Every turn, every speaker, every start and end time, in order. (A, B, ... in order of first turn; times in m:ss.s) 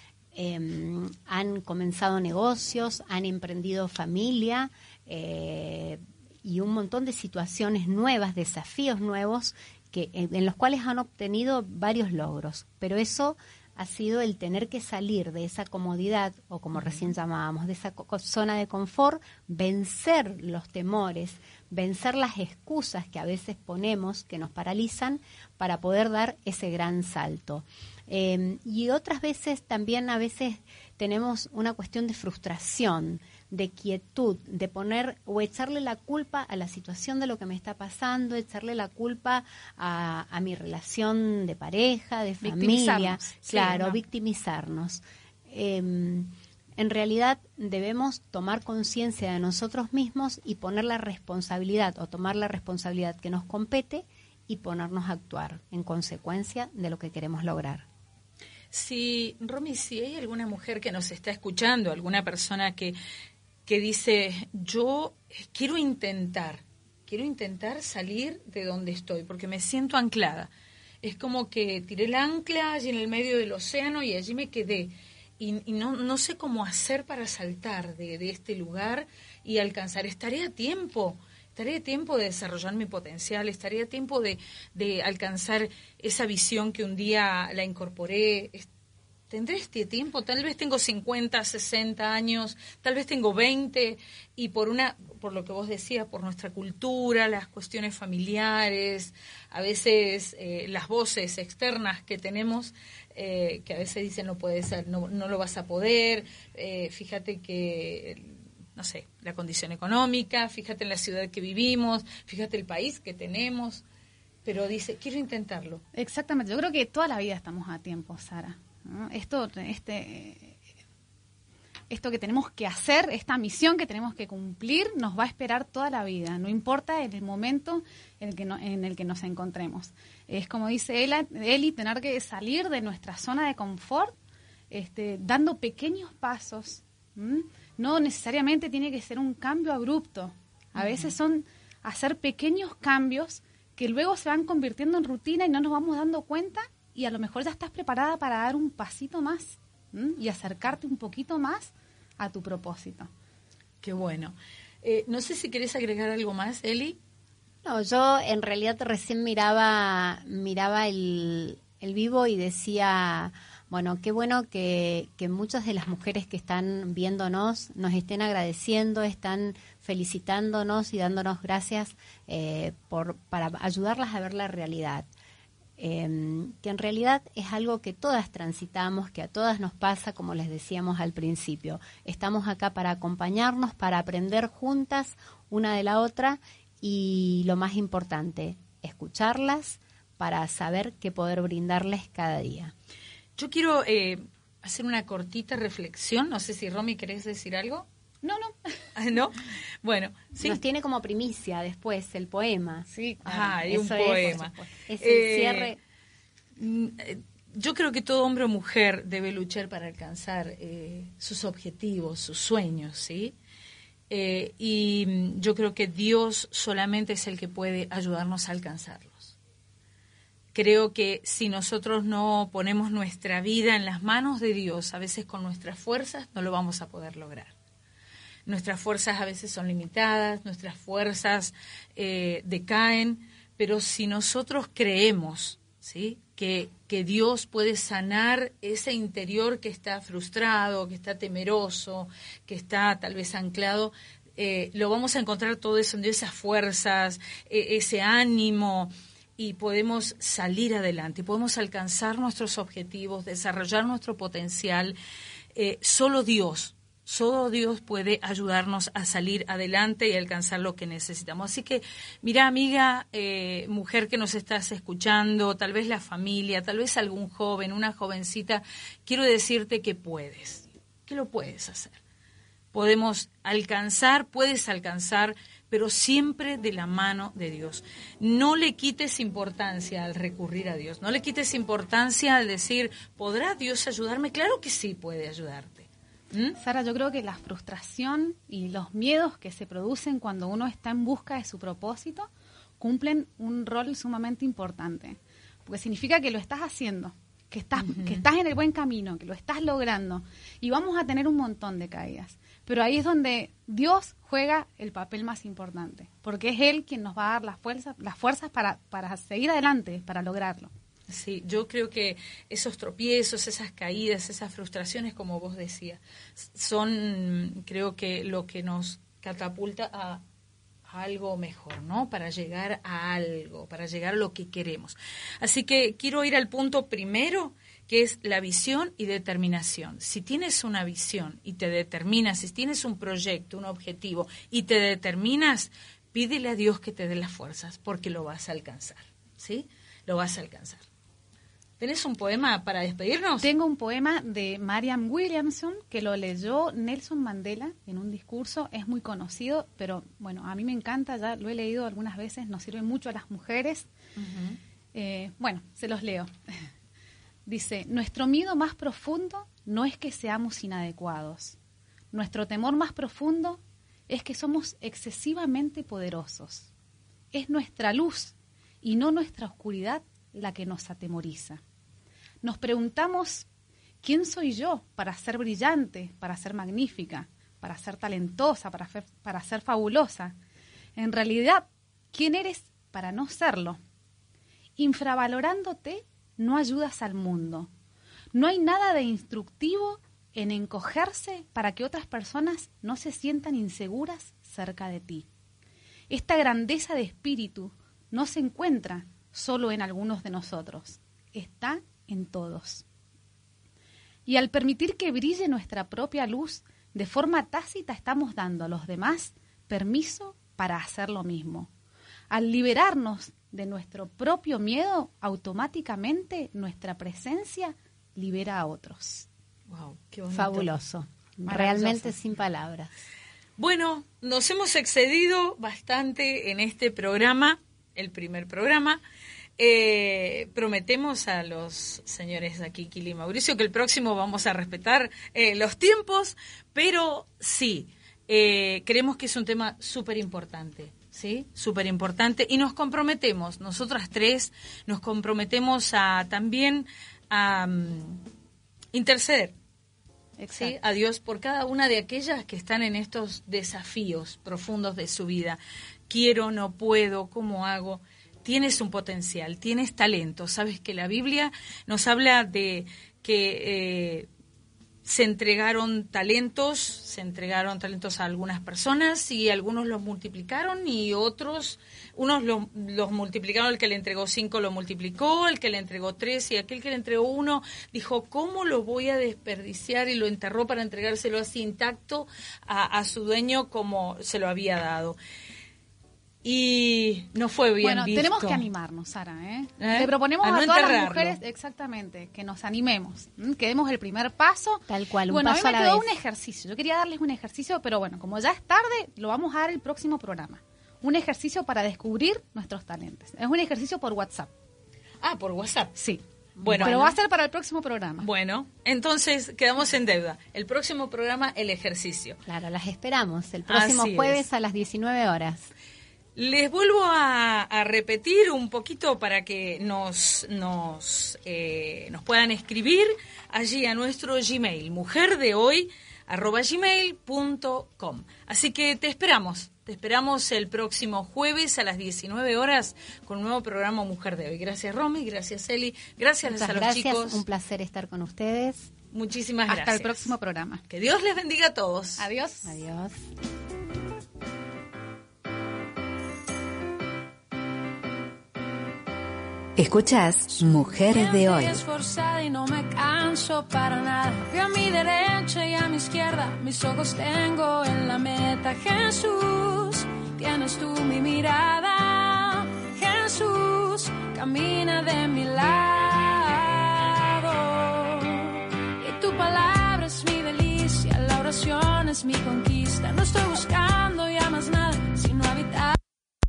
0:00.3-0:57.8 A
0:16.7-0:17.1 B
0:42.4-0:44.0 C
0:58.7-1:03.0 B
1:03.6-1:10.5 B
1:11.0-1:28.7 B
1:29.3-1:53.8 B
1:54.4-1:55.8 B
1:55.9-2:00.6 C
2:01.9-2:14.1 C
2:14.7-2:33.1 C
2:20.8-2:21.1 B
2:33.8-2:37.0 B
2:37.6-2:55.1 A
2:55.8-3:12.7 A
3:13.4-3:17.8 B
3:18.2-3:18.7 C
3:18.9-3:20.6 B
3:20.4-3:22.9 A
3:22.9-3:24.4 C
3:23.2-3:25.7 B
3:23.6-3:25.8 A
3:26.6-3:33.3 B
3:34.1-3:39.3 B
3:40.5-3:47.5 B
3:48.4-4:15.0 B
4:15.5-4:32.0 B
4:32.7-4:46.6 B
4:46.6-4:52.3 C
4:52.8-5:10.7 C
4:57.8-4:58.2 B
5:11.1-5:20.2 B
5:20.9-5:40.8 B
5:41.8-5:43.5 B
5:43.4-5:53.9 C
5:54.2-5:54.6 B
5:54.9-5:56.3 C
5:57.4-6:01.5 C
6:02.1-6:06.7 C
6:07.3-6:11.6 C
6:12.4-6:13.4 C
6:14.0-6:20.4 C
6:21.0-6:23.8 C
6:24.8-6:27.7 C
6:28.3-6:35.2 C
6:36.1-6:42.8 C
6:44.2-6:51.7 C
6:52.3-6:59.2 C
6:59.7-7:00.7 B
7:00.3-7:02.9 A
7:01.5-7:02.0 C
7:01.6-7:02.0 B
7:03.6-7:09.0 B
7:09.6-7:28.2 B
7:28.9-7:29.5 B
7:30.4-7:30.7 C
7:30.5-7:44.3 B
7:45.0-8:05.2 B
8:06.4-8:08.6 B
8:07.8-8:24.5 C
8:09.8-8:11.4 B
8:14.9-8:16.1 A
8:25.2-8:26.0 B
8:26.0-8:26.2 C
8:26.6-8:27.2 A
8:26.6-8:27.0 B
8:26.8-8:28.3 C
8:28.2-8:32.4 B
8:32.5-8:35.7 A
8:33.7-8:34.4 B
8:36.4-8:57.4 B
8:56.4-8:58.9 A
8:59.1-9:00.3 B
8:59.7-9:00.8 C
9:00.9-9:02.2 B
9:02.2-9:02.8 C
9:02.6-9:03.2 A
9:09.8-9:11.8 D
9:11.1-9:36.0 E